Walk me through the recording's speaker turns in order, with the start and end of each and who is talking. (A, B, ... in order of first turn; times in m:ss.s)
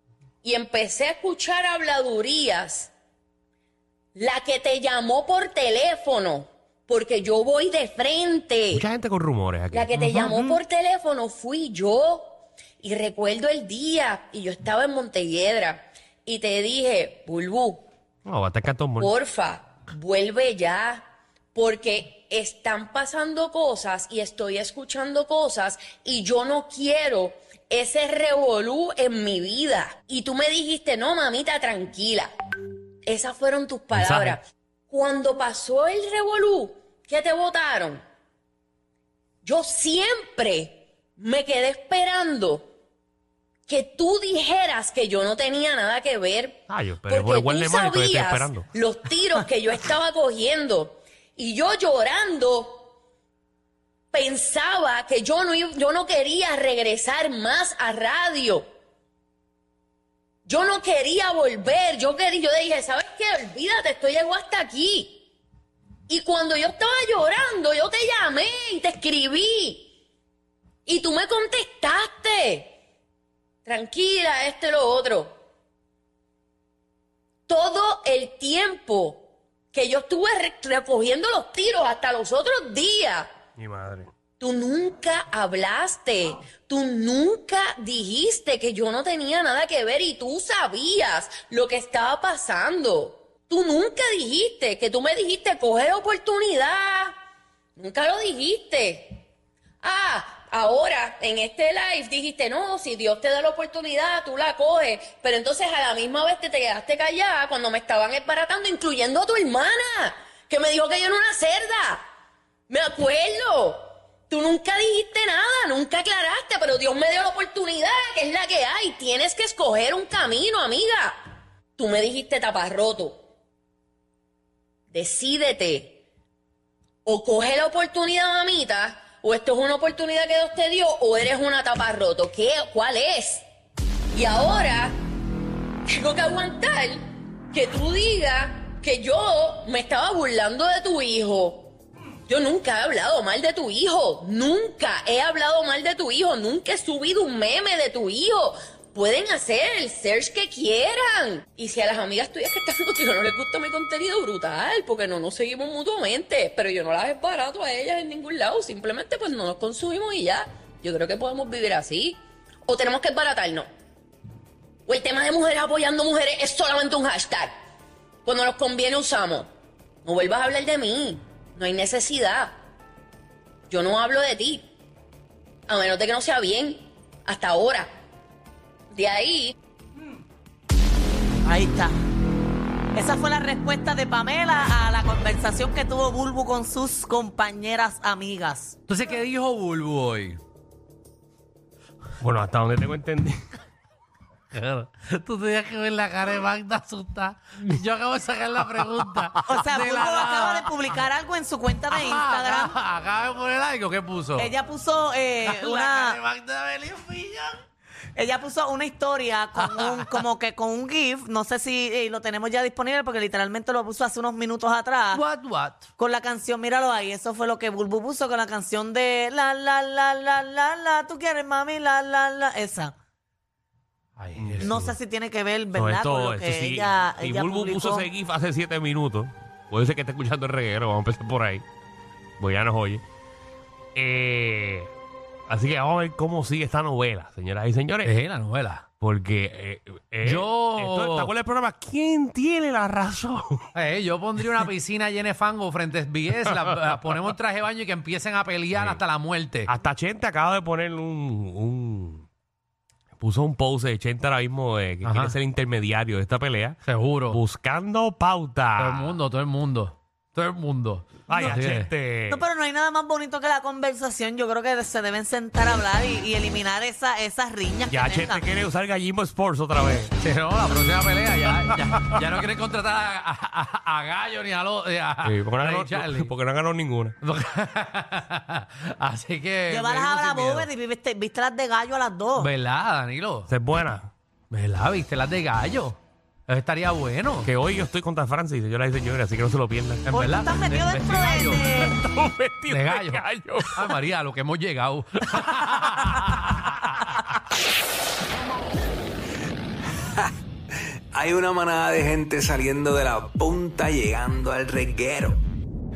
0:00.4-0:02.9 A
0:04.2-0:08.8 A
0:08.7-0:10.4 B
0:09.7-0:17.9 A
0:18.2-0:19.1 B
0:19.0-0:32.3 A
0:33.1-0:38.0 A
0:33.9-0:34.4 B
0:39.4-0:42.6 A
0:43.7-0:52.9 A
0:46.7-0:48.7 B
0:54.1-0:58.6 A
1:00.5-1:05.2 A
1:06.1-1:09.9 A
1:10.9-1:12.7 A
1:13.6-1:15.4 A
1:17.5-1:23.3 A
1:23.6-1:24.1 B
1:24.4-1:37.2 A
1:37.8-1:39.2 A
1:39.8-1:52.0 A
1:52.7-2:01.2 A
2:01.8-2:03.2 A
2:04.9-2:06.0 A
2:07.1-2:13.4 A
2:14.1-2:15.0 A
2:15.9-2:21.7 A
2:22.3-2:43.7 A
2:44.9-2:47.5 A
2:48.2-2:49.5 A
2:50.0-2:52.5 A
2:53.7-2:54.6 A
2:55.7-2:57.9 A
2:58.9-2:59.6 A
3:01.4-3:02.0 C
3:03.0-3:08.8 C
3:08.9-3:10.4 D
3:12.2-3:13.4 B
3:14.5-3:21.0 D
3:19.5-3:22.7 C
3:21.9-3:24.5 D
3:24.4-3:26.2 C
3:25.4-3:27.6 D
3:28.2-3:35.2 C
3:29.6-3:30.2 D
3:35.1-3:35.9 D
3:36.0-3:42.9 C
3:44.2-3:44.7 D
3:44.4-3:45.0 B
3:44.6-3:48.1 C
3:45.7-3:51.6 B
3:52.4-3:53.0 B
3:54.0-3:54.9 B
3:55.5-3:58.1 B
3:58.0-3:58.9 D
3:59.0-4:03.7 B
4:00.2-4:01.3 D
4:03.8-4:09.7 D
4:08.7-4:09.0 B
4:09.7-4:12.3 B
4:13.2-4:19.1 B
4:15.0-4:15.4 D
4:16.8-4:17.4 D
4:18.8-4:21.9 D
4:21.3-4:22.4 B
4:21.3-4:21.6 C
4:22.3-4:28.4 C
4:27.9-4:30.1 B
4:30.2-4:36.3 D
4:35.2-4:37.2 B
4:37.2-4:40.7 D
4:39.7-4:42.5 C
4:42.4-4:43.5 D
4:43.5-4:44.1 B
4:44.5-4:47.5 D
4:47.4-4:50.1 B
4:50.0-4:51.6 D
4:50.1-4:52.0 C
4:51.6-4:54.0 B
4:52.7-4:56.2 D
5:01.1-5:05.4 E